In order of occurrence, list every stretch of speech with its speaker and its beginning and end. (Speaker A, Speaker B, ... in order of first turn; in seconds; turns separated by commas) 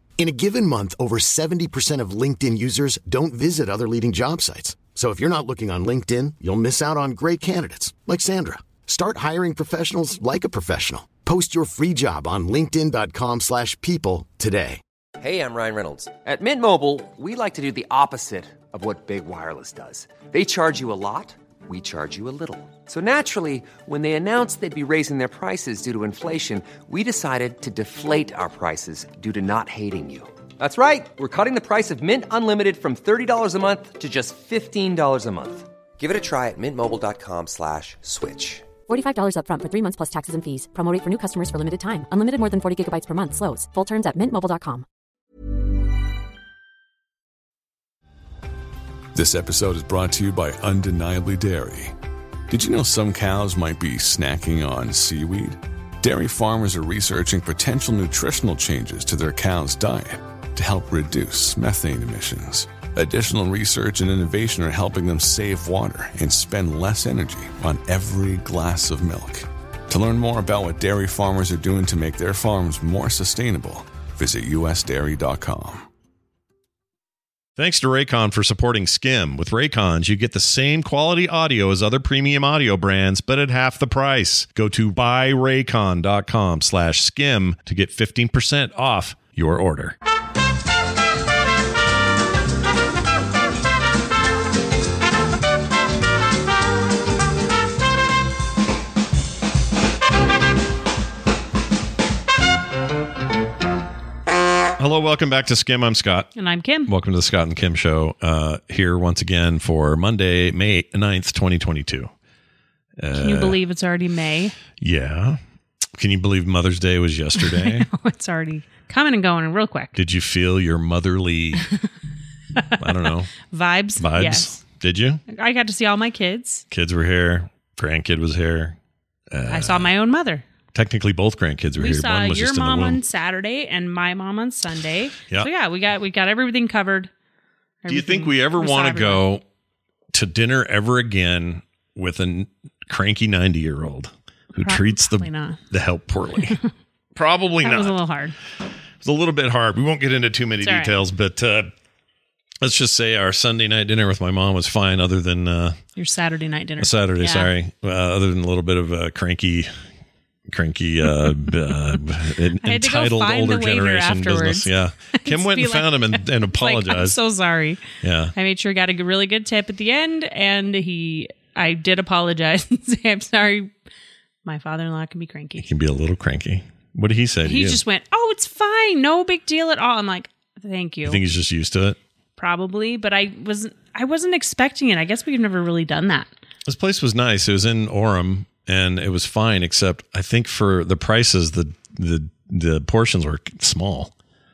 Speaker A: 0.2-14.8, Speaker B: 15.2-38.7, Speaker C: 38.9-44.9, Speaker D: 49.1-51.9, Speaker D: 52.5-75.9, Speaker E: 77.6-90.0, Speaker E: 104.8-106.3, Speaker F: 106.3-106.9, Speaker E: 106.9-112.1, Speaker E: 113.0-113.6, Speaker F: 113.1-114.6, Speaker E: 114.8-115.4, Speaker E: 116.0-117.9, Speaker F: 117.4-120.0, Speaker E: 120.0-121.7, Speaker F: 122.6-124.6, Speaker E: 122.8-123.3, Speaker E: 124.0-125.2, Speaker F: 125.3-126.7, Speaker E: 126.7-128.8, Speaker E: 129.3-129.9, Speaker F: 129.5-130.4, Speaker E: 130.7-133.0, Speaker F: 131.8-137.1, Speaker F: 137.8-139.2, Speaker E: 137.9-139.4, Speaker E: 140.1-146.6, Speaker F: 144.5-145.6, Speaker E: 147.2-148.0, Speaker F: 147.6-148.4, Speaker E: 149.0-151.7, Speaker F: 150.6-151.0, Speaker E: 152.6-155.8, Speaker F: 156.0-157.5, Speaker E: 156.8-159.7, Speaker E: 160.5-167.2, Speaker F: 162.6-167.8, Speaker E: 168.0-168.3, Speaker F: 168.3-173.7, Speaker F: 174.4-175.7, Speaker E: 175.6-177.8, Speaker F: 177.4-181.2, Speaker E: 181.1-182.0, Speaker F: 182.4-186.3, Speaker E: 186.7-194.1